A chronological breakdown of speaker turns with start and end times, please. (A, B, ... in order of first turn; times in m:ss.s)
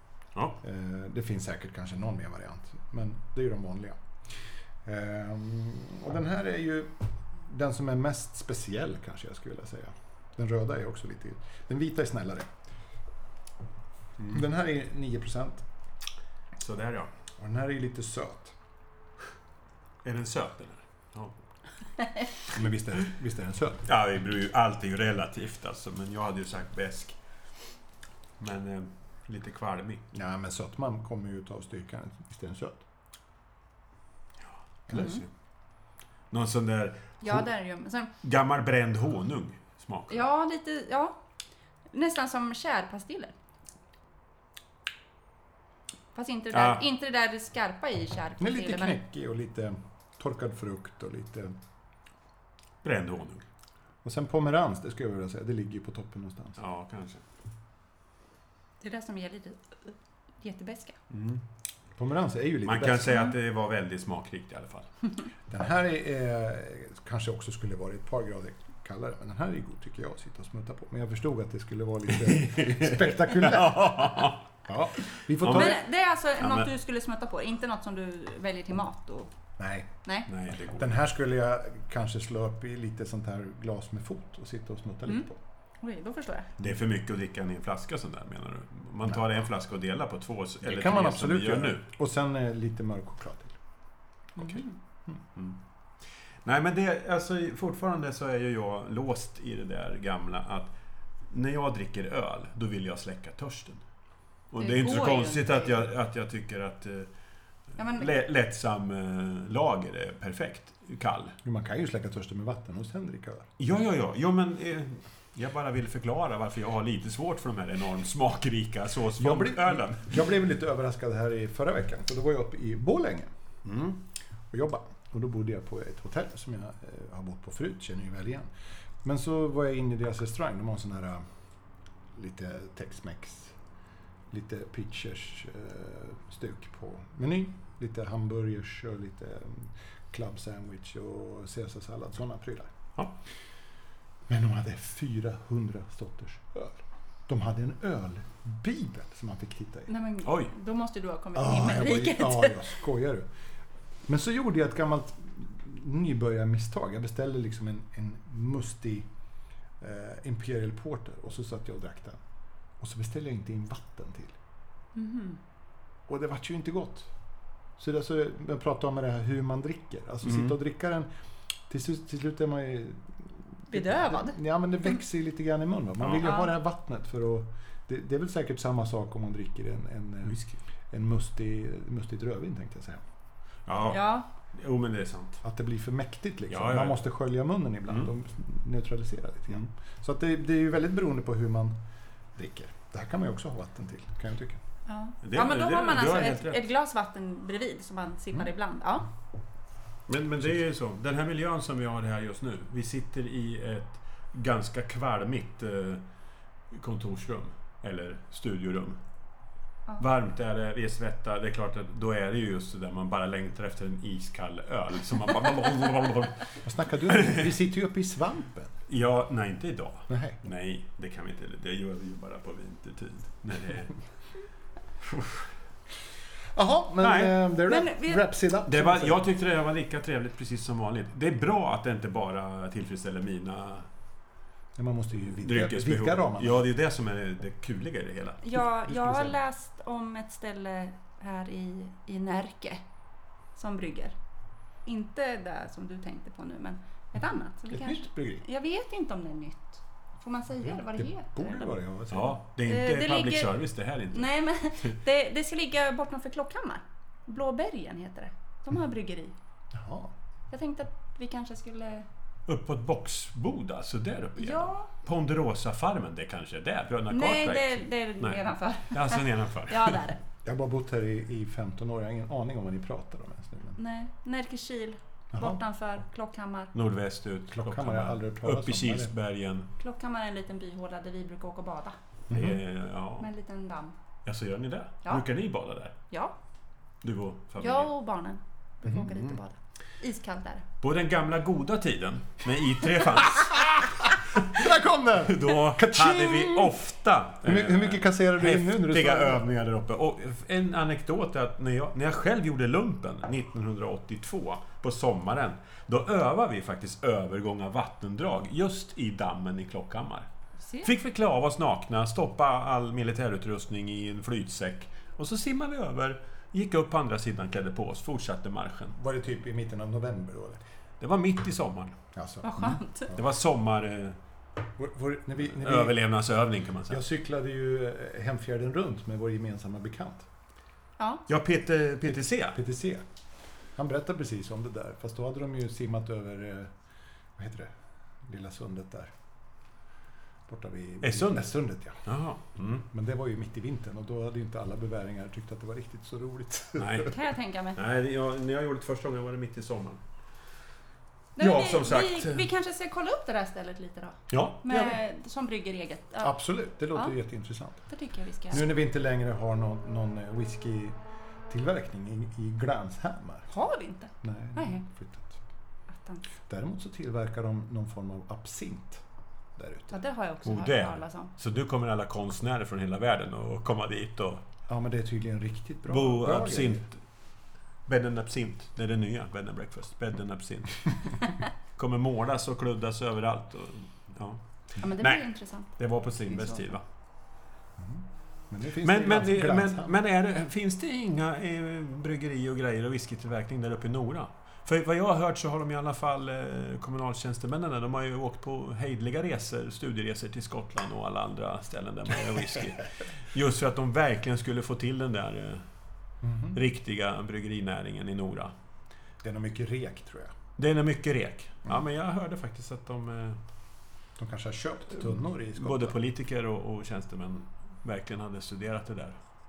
0:00.6-0:04.0 A
0:04.8-0:12.5 A
0:14.3-0:15.6 A
0:16.6-0:17.1 B
0:17.4-0:18.5 A
0:20.0-0:21.4 B
0:22.5-0:23.8 A
0:23.9-0:27.2 B
0:28.4-0:30.0 B
0:30.1-0:32.8 A
0:34.9-0:35.3 B
0:34.9-0:35.2 C
0:36.3-0:37.4 B
0:37.2-0:38.1 C
0:38.2-0:40.3 B
0:40.1-0:41.2 C
0:41.9-0:43.3 C
0:46.1-0:49.0 C
0:46.5-0:46.8 B
0:48.4-0:51.6 A
0:52.8-0:53.4 B
0:54.0-0:56.6 A
0:56.6-0:57.2 B
0:58.8-1:01.0 C
1:01.1-1:01.4 B
1:02.0-1:03.2 A
1:02.6-1:04.9 B
1:05.5-1:15.8 A
1:12.1-1:14.4 B
1:15.4-1:15.8 B
1:15.5-1:19.3 C
1:16.3-1:16.7 B
1:19.6-1:19.9 A
1:20.3-1:20.9 B
1:20.7-1:25.4 A
1:25.8-1:26.5 C
1:26.6-1:31.8 B
1:30.6-1:33.6 A
1:36.4-1:40.7 B
1:41.3-1:43.8 B
1:44.5-1:47.1 B
1:44.6-1:45.9 C
1:47.8-1:48.2 C
1:47.8-1:51.4 B
1:51.4-1:53.5 A
1:53.6-2:00.2 B
1:59.2-2:03.3 A
2:03.6-2:04.0 B
2:04.5-2:08.5 A
2:09.0-2:11.2 A
2:12.1-2:13.6 A
2:14.3-2:22.7 A
2:24.3-2:29.9 A
2:29.9-2:32.8 C
2:30.2-2:30.5 B
2:31.3-2:33.3 A
2:34.1-2:39.1 A
2:39.8-2:42.2 A
2:42.8-2:44.4 A
2:45.0-2:45.4 C
2:46.1-2:47.1 A
2:47.8-2:51.1 A
2:50.2-2:50.6 B
2:51.7-3:00.4 A
2:53.7-2:54.4 C
2:56.0-2:56.3 B
2:56.2-2:56.5 C
3:00.2-3:00.6 B
3:00.9-3:03.0 A
3:03.7-3:05.4 B
3:03.9-3:04.3 C
3:05.4-3:11.8 A
3:06.5-3:07.0 B
3:12.4-3:14.6 A
3:14.9-3:19.1 C
3:15.2-3:16.6 B
3:20.1-3:26.0 B
3:26.7-3:29.0 B
3:30.0-3:36.5 B
3:36.6-3:38.7 A
3:37.1-3:37.4 B
3:38.9-3:44.0 B
3:40.1-3:40.4 A
3:45.0-3:45.5 B
3:46.5-3:49.3 A
3:47.0-3:47.3 B
3:47.7-3:48.3 C
3:48.7-3:53.9 B
3:54.8-3:56.7 A
3:55.4-3:58.4 B
3:58.4-4:02.8 C
3:58.9-3:59.3 A
4:03.6-4:04.1 C
4:04.8-4:11.8 C
4:07.7-4:08.4 A
4:10.6-4:12.4 A
4:12.1-4:14.4 B
4:12.7-4:13.6 C
4:14.1-4:19.3 C
4:19.7-4:20.1 A
4:20.5-4:22.1 C
4:22.5-4:30.0 B
4:24.4-4:24.9 C
4:27.1-4:30.2 C
4:30.4-4:33.8 A
4:33.8-4:36.7 C
4:35.3-4:35.6 A
4:36.7-4:39.7 B
4:37.5-4:39.1 A
4:39.8-4:42.0 C
4:42.3-4:42.6 A
4:42.3-4:43.3 B
4:43.2-4:44.0 C
4:44.2-4:46.0 B
4:46.1-4:46.3 C
4:47.0-4:47.9 B
4:47.6-4:50.6 C
4:48.9-4:49.1 A
4:50.8-4:54.5 B
4:54.5-4:56.7 A
4:55.2-5:10.3 B
4:57.4-4:59.4 A
5:10.6-5:10.9 C
5:10.8-5:19.0 B
5:18.9-5:20.6 A
5:21.0-5:22.0 B
5:22.1-5:23.1 A
5:22.4-5:23.1 C
5:23.1-5:24.2 B
5:24.8-5:26.0 A
5:25.6-5:27.0 B
5:26.9-5:30.3 A
5:31.3-5:32.6 B
5:32.5-5:33.0 A
5:33.8-5:36.7 A
5:37.4-5:37.7 A
5:38.3-5:39.1 A
5:40.5-5:42.0 A
5:41.0-5:41.5 B
5:42.0-5:42.8 B
5:42.9-5:47.1 A
5:46.8-5:47.1 B
5:47.0-5:47.8 C
5:47.7-5:50.0 B
5:51.4-5:56.3 C
5:51.4-5:52.4 B
5:54.3-5:55.0 B
5:56.2-5:57.8 A
5:57.9-5:58.7 C
5:58.5-6:01.0 A
6:01.5-6:03.5 A
6:03.5-6:04.8 C
6:04.2-6:05.4 A
6:05.9-6:06.2 C
6:06.5-6:09.0 A
6:09.6-6:10.0 A
6:09.9-6:11.3 C
6:10.4-6:14.4 B
6:14.7-6:16.8 A
6:15.9-6:17.0 B
6:17.9-6:20.8 B
6:21.8-6:26.8 B
6:24.8-6:26.7 C
6:27.8-6:29.9 A
6:28.8-6:45.6 B
6:46.2-6:46.6 A
6:46.5-6:48.5 B
6:49.2-6:50.3 A
6:50.6-6:53.4 B
6:54.2-6:56.0 A
6:55.6-6:59.2 B